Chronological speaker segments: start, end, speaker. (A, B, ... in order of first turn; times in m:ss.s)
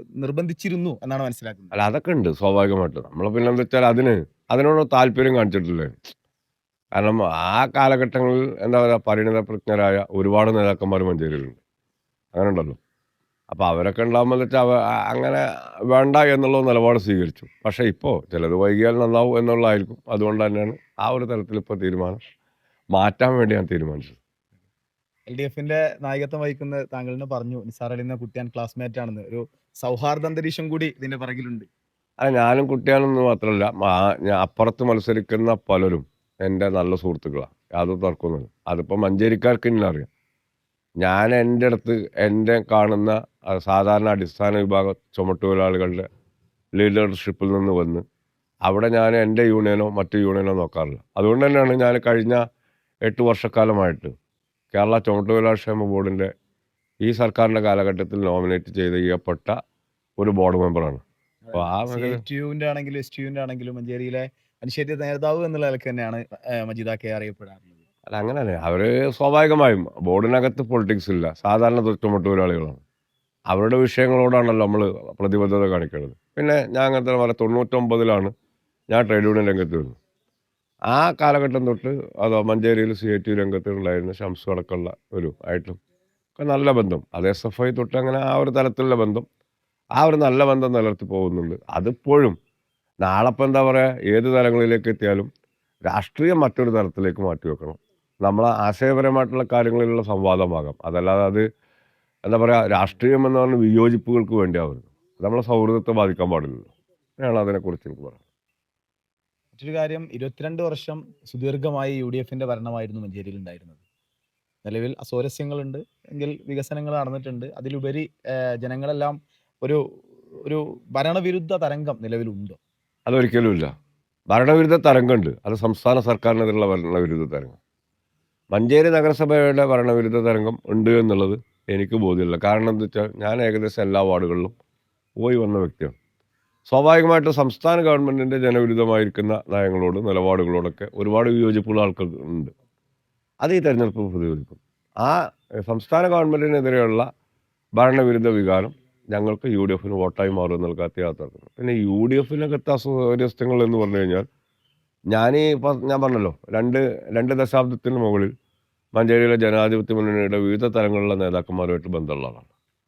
0:00.2-0:01.7 A
0:01.7-0:05.9 B
0:07.0-0:11.6 B
0:12.3-0:12.8 B
0:13.5-0:22.2 B
0:22.9-0:24.2 B
0:25.3-0:31.7 A
0:32.2-0:40.1 B
0:41.0-0:46.0 B
0:46.8-0:48.0 B
0:48.6-0:52.4 B
0:53.0-0:54.1 B
0:54.7-0:56.3 B
0:57.0-0:59.5 B
1:00.2-1:01.0 B
1:01.4-1:07.8 A
1:01.5-1:02.2 B
1:08.1-1:12.8 B
1:13.5-1:18.3 B
1:18.9-1:20.0 B
1:20.9-1:25.8 B
1:26.4-1:29.2 B
1:30.0-1:32.4 B
1:33.0-1:35.3 B
1:35.9-1:41.4 B
1:42.3-1:48.2 B
1:49.6-1:53.8 A
1:54.6-1:59.8 A
2:00.4-2:02.6 A
2:03.1-2:03.7 B
2:04.3-2:07.6 B
2:08.5-2:14.5 B
2:15.2-2:16.0 B
2:16.7-2:22.5 B
2:23.4-2:27.1 B
2:27.8-2:34.2 B
2:35.1-2:38.3 B
2:38.9-2:42.5 B